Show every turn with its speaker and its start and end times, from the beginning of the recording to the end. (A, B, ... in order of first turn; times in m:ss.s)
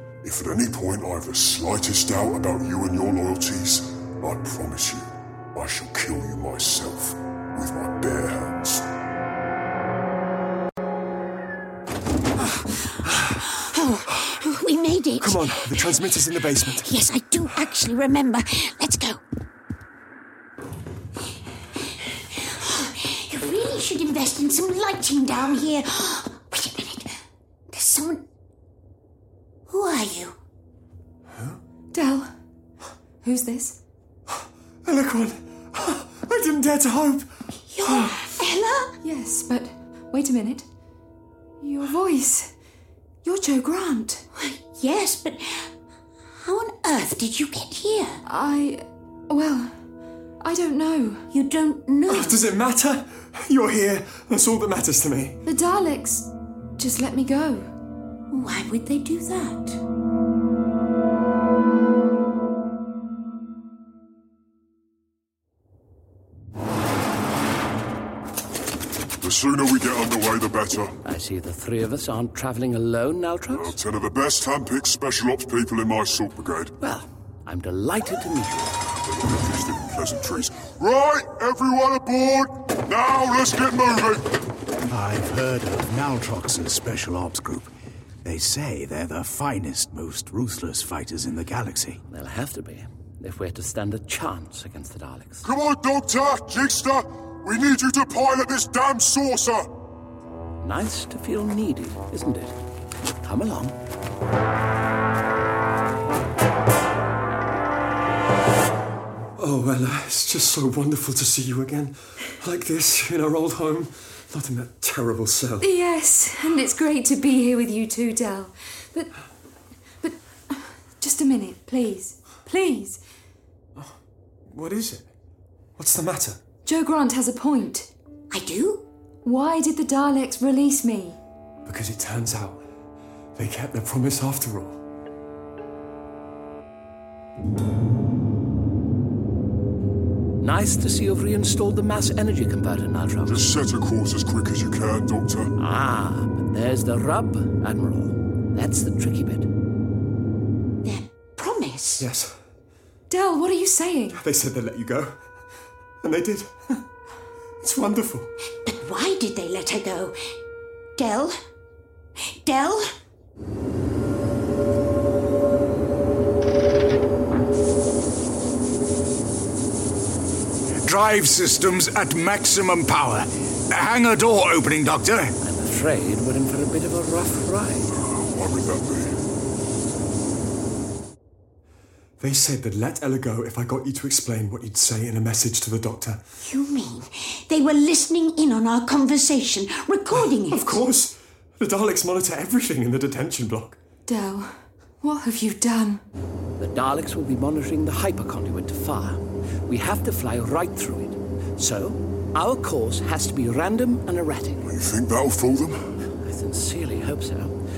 0:00.2-0:08.9 A
0:13.2-0:15.9 B
0:15.2-0:16.9 C
0:16.7-0:19.2 B
0:22.3-0:27.2 B
0:27.7-0:28.3 B
0:29.7-0:30.4 B
0:31.9-0:32.3 D
0:33.2-0:33.8 D
0:34.3-0:37.3 C
0:37.7-0:38.9 B
0:37.8-0:38.2 C
0:39.0-0:40.7 D
0:41.6-0:42.5 D
0:43.2-0:44.2 D
0:44.4-0:45.7 B
0:46.4-0:48.2 B
0:48.3-0:49.7 D
0:50.4-0:51.2 D
0:51.3-0:52.4 B
0:52.1-0:55.4 C
0:55.5-0:57.7 D
0:58.3-0:59.8 B
1:09.2-1:10.9 A
1:11.0-1:13.8 E
1:13.5-1:16.7 A
1:16.8-1:18.8 E
1:18.9-1:24.4 A
1:24.9-1:27.7 F
1:28.2-1:32.0 F
1:32.1-1:35.4 E
1:35.4-1:39.7 A
1:40.6-1:42.6 E
1:43.2-1:43.8 E
1:49.4-1:55.7 C
1:55.6-1:59.1 D
2:00.0-2:03.0 D
2:04.5-2:05.1 C
2:05.8-2:06.4 C
2:06.6-2:07.9 D
2:08.3-2:08.9 B
2:09.2-2:11.2 D
2:11.6-2:12.6 C
2:13.4-2:14.8 C
2:20.4-2:23.5 E
2:23.3-2:25.5 A
2:25.6-2:29.5 E
2:30.8-2:32.1 B
2:32.0-2:32.3 C
2:33.1-2:34.2 D
2:34.1-2:35.2 C
2:36.0-2:36.8 C
2:37.6-2:38.3 C
2:38.6-2:40.2 B
2:41.0-2:41.4 B
2:42.3-2:42.9 B
2:50.8-2:55.3 F
2:55.4-2:57.9 E
2:57.9-2:59.2 A
3:02.2-3:06.2 C
3:06.4-3:10.8 B
3:10.2-3:13.8 C
3:14.1-3:16.0 D
3:16.6-3:24.7 E
3:24.6-3:25.8 A
3:26.2-3:27.6 E